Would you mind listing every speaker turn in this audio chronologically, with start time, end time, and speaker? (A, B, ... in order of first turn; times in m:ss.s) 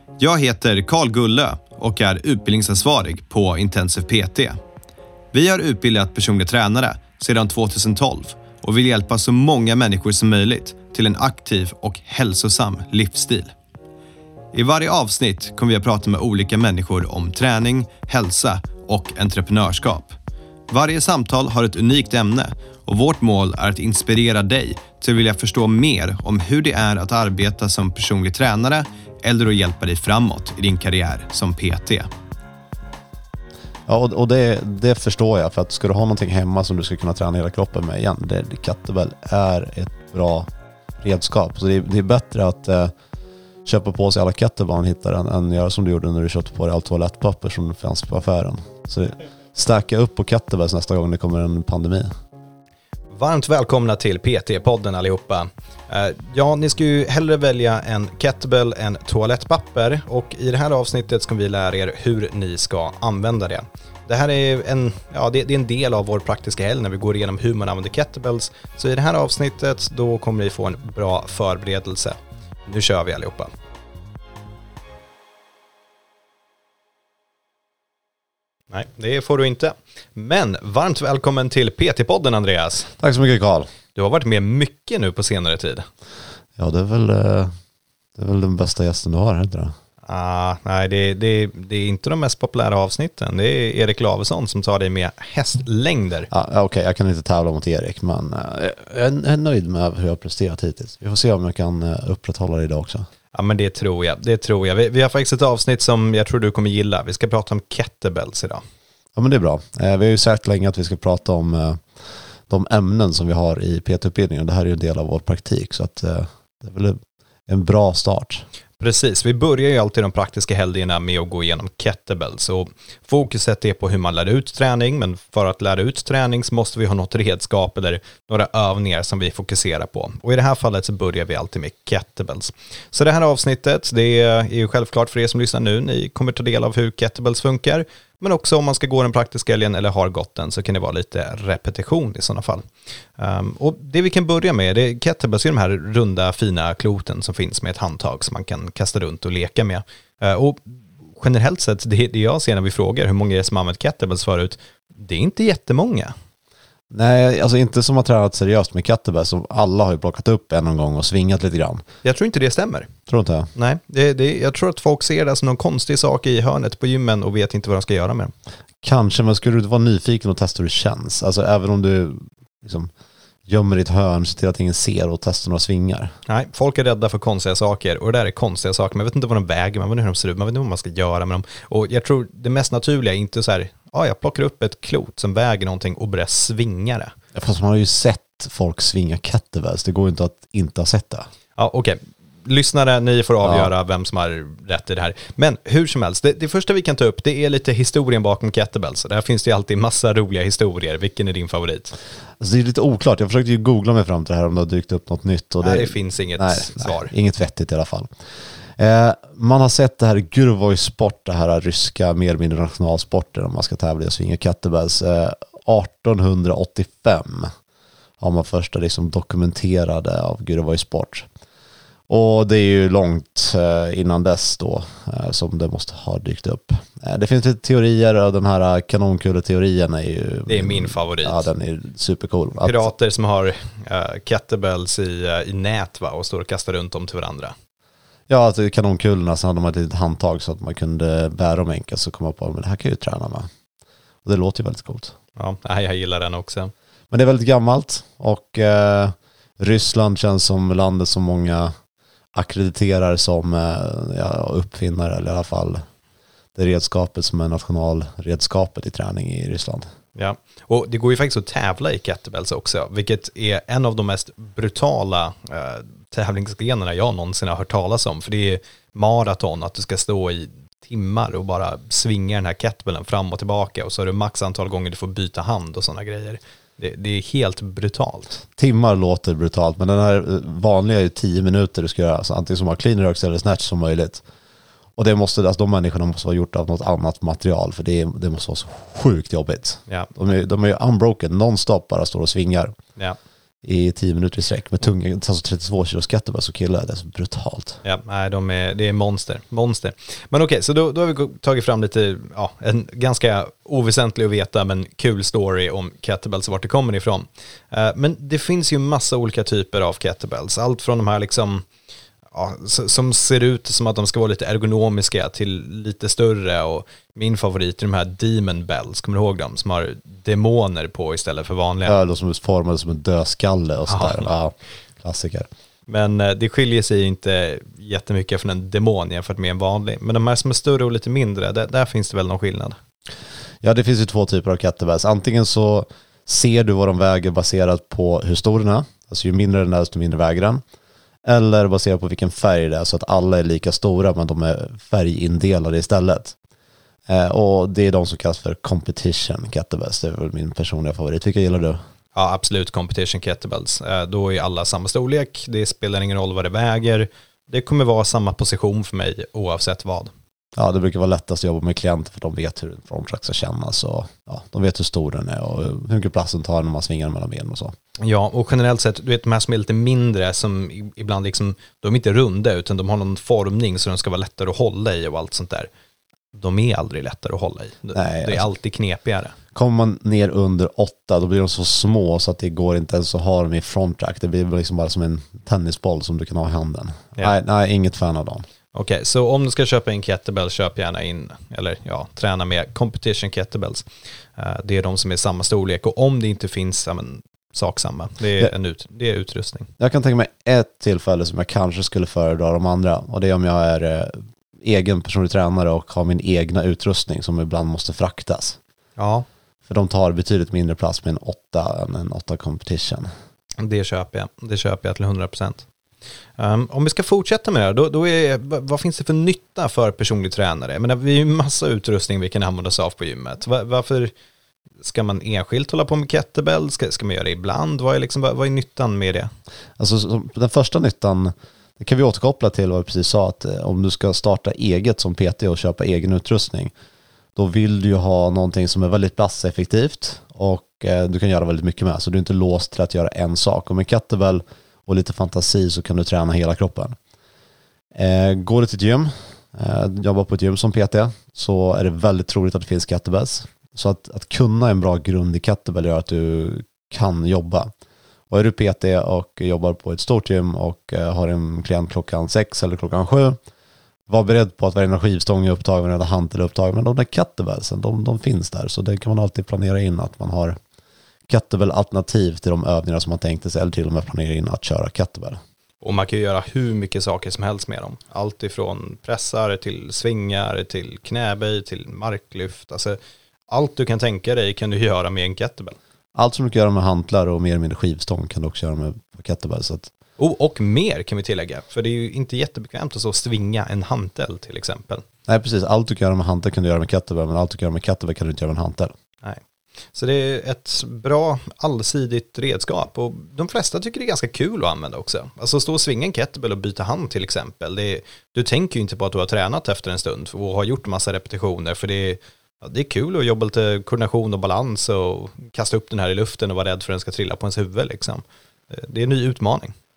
0:00.2-0:04.6 A
0:05.3-0:13.5 A
0:14.5-0:20.2 A
0:20.7-0:32.1 A
0:33.9-0:40.5 B
0:41.0-0:42.9 B
0:43.6-0:52.1 B
0:53.1-1:13.5 A
1:18.7-1:22.9 A
1:23.0-1:23.7 B
1:23.9-1:25.8 A
1:26.6-1:27.5 B
1:28.2-1:29.7 B
1:30.0-1:36.3 A
1:36.3-1:43.1 B
1:43.3-1:48.6 A
1:49.2-1:51.8 B
1:52.5-1:58.4 B
1:58.8-2:36.1 A
2:36.9-2:41.8 B
2:42.0-2:42.9 A
2:43.1-2:43.5 B
2:43.6-2:48.3 A
2:48.8-2:52.9 B
2:53.5-2:56.1 B
2:56.2-3:07.1 A
3:07.3-3:11.3 B
3:11.6-3:22.0 A
3:13.4-3:13.7 B
3:22.4-3:28.1 B
3:25.6-3:27.1 A
3:28.8-3:37.5 B
3:38.2-3:41.3 B
3:42.1-3:52.9 B
3:50.5-3:51.5 A
3:52.6-3:57.5 A
3:58.3-4:03.5 B
4:04.2-4:05.2 B
4:05.4-4:06.7 A
4:07.1-4:11.7 B
4:12.3-4:15.8 B
4:16.5-4:19.8 B
4:20.1-4:38.4 A
4:38.6-4:44.2 B
4:45.0-4:52.8 B
4:53.6-4:57.8 B
4:57.8-5:11.6 A
5:12.3-5:22.0 A
5:21.8-5:25.5 B
5:23.9-5:24.3 A
5:25.9-5:32.8 A
5:33.6-5:40.6 B
5:41.2-5:46.3 B
5:47.1-5:51.8 B
5:52.1-6:00.1 A
6:00.6-6:07.8 B
6:08.0-6:15.7 A
6:16.3-6:19.3 A
6:17.9-6:18.5 B
6:19.5-6:28.4 B
6:28.7-6:39.7 A
6:39.8-6:48.6 B
6:49.0-6:49.2 A
6:49.6-6:53.1 B
6:53.6-6:55.6 A
6:56.4-7:04.1 A
7:04.8-7:09.3 A
7:09.8-7:16.7 B
7:17.4-7:27.0 B
7:27.9-7:37.7 B
7:38.3-7:43.4 B
7:44.1-7:50.6 B
7:51.3-7:55.4 B
7:55.8-8:03.0 A
8:03.5-8:05.8 A
8:06.1-8:09.9 B
8:10.2-8:15.0 A
8:15.3-8:18.9 B
8:19.9-8:39.8 A